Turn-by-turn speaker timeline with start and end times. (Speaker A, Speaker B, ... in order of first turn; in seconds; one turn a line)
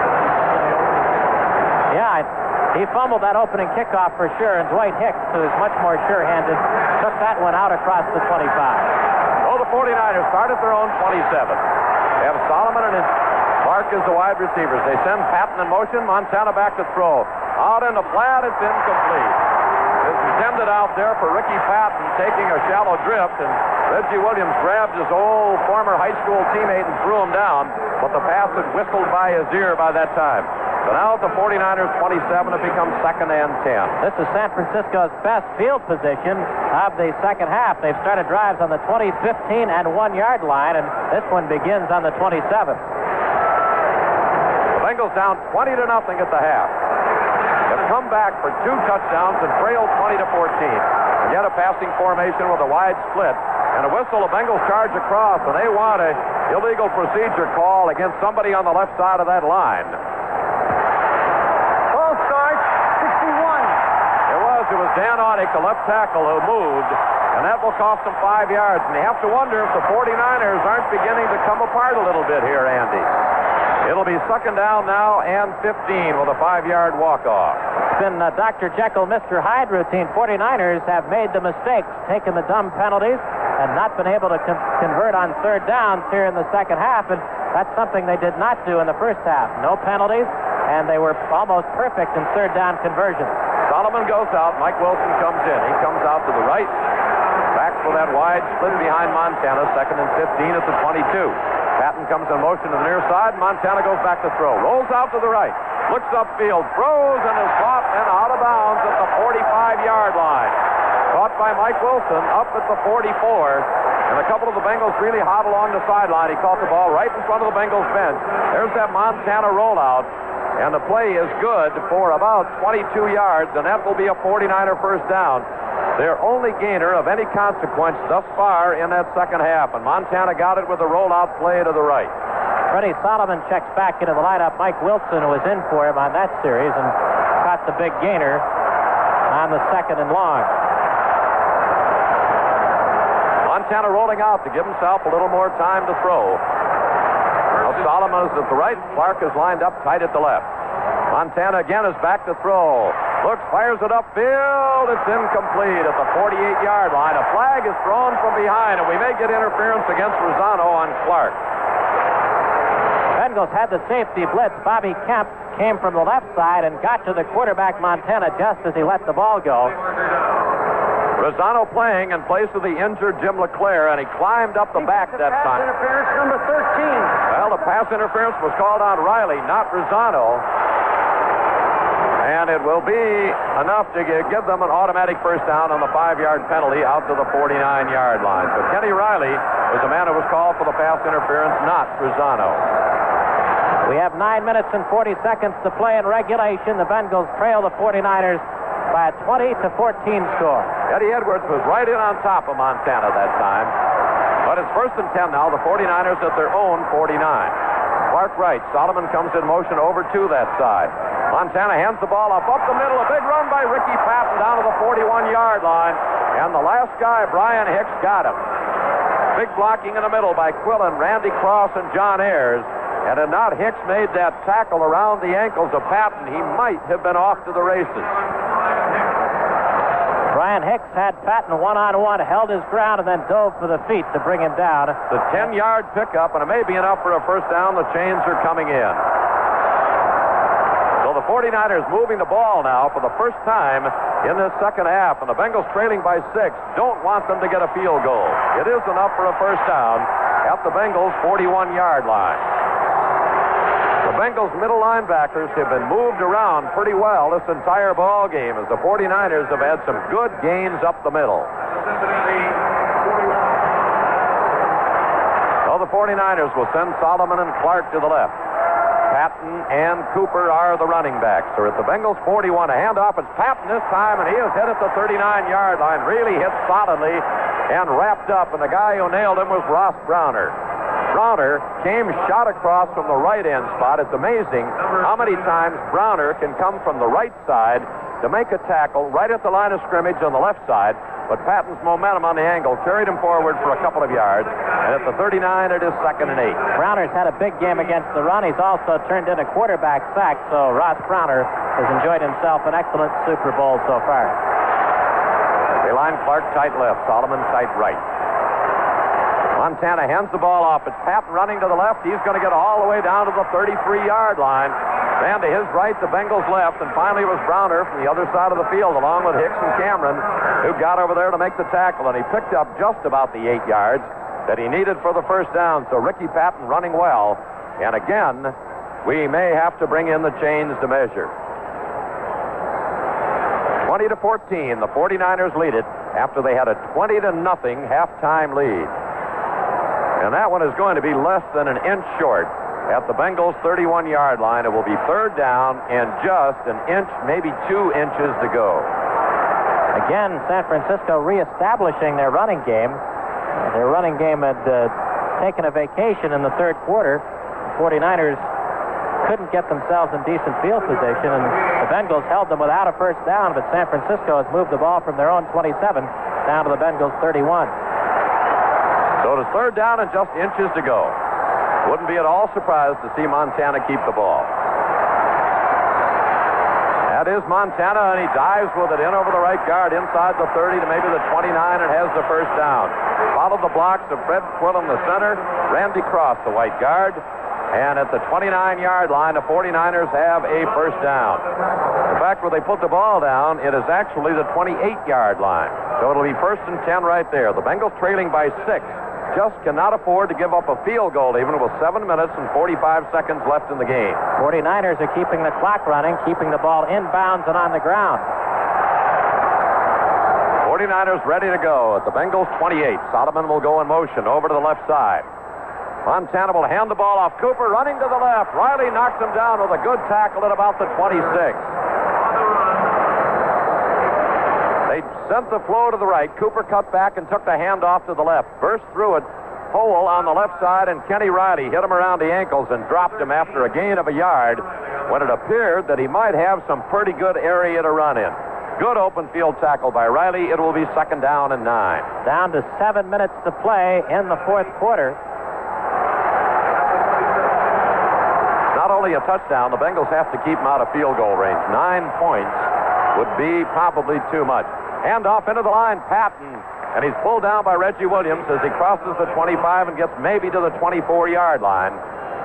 Speaker A: 1.9-8.9
Speaker B: 9.4-11.6
Speaker B: 12.2-19.4
Speaker B: 20.0-34.0
Speaker A: 34.0-42.8
Speaker B: 44.7-46.7
Speaker B: 47.7-60.0
Speaker C: 61.9-63.8
Speaker B: 64.3-73.1
Speaker B: 73.8-77.6
Speaker A: 77.8-93.4
Speaker B: 93.7-96.8
Speaker B: 97.5-110.6
Speaker B: 111.1-132.1
Speaker A: 132.7-138.5
Speaker A: 139.3-140.5
Speaker B: 143.4-146.4
Speaker B: 147.6-150.5
Speaker B: 151.1-161.4
Speaker A: 163.1-169.8
Speaker B: 171.2-175.7
Speaker C: 174.9-177.2
Speaker B: 177.3-180.4
Speaker B: 182.2-192.6
Speaker A: 193.8-200.7
Speaker B: 200.9-203.7
Speaker B: 204.4-207.6
Speaker B: 208.1-218.4
Speaker B: 219.3-228.2
Speaker A: 230.3-235.0
Speaker B: 235.1-239.0
Speaker B: 241.0-252.4
Speaker B: 254.0-261.5
Speaker B: 265.6-268.4
Speaker B: 269.1-280.6
Speaker B: 281.1-296.6
Speaker A: 296.7-304.4
Speaker B: 305.8-308.0
Speaker B: 309.6-331.3
Speaker B: 333.8-338.9
Speaker B: 340.2-348.9
Speaker A: 349.9-353.0
Speaker A: 353.6-358.4
Speaker A: 359.2-367.7
Speaker B: 369.2-371.2
Speaker B: 371.9-374.5
Speaker B: 377.1-391.5
Speaker B: 392.1-404.2
Speaker A: 404.4-408.3
Speaker B: 410.6-415.3
Speaker B: 416.1-421.7
Speaker B: 424.9-442.1
Speaker A: 442.2-445.2
Speaker B: 448.7-462.0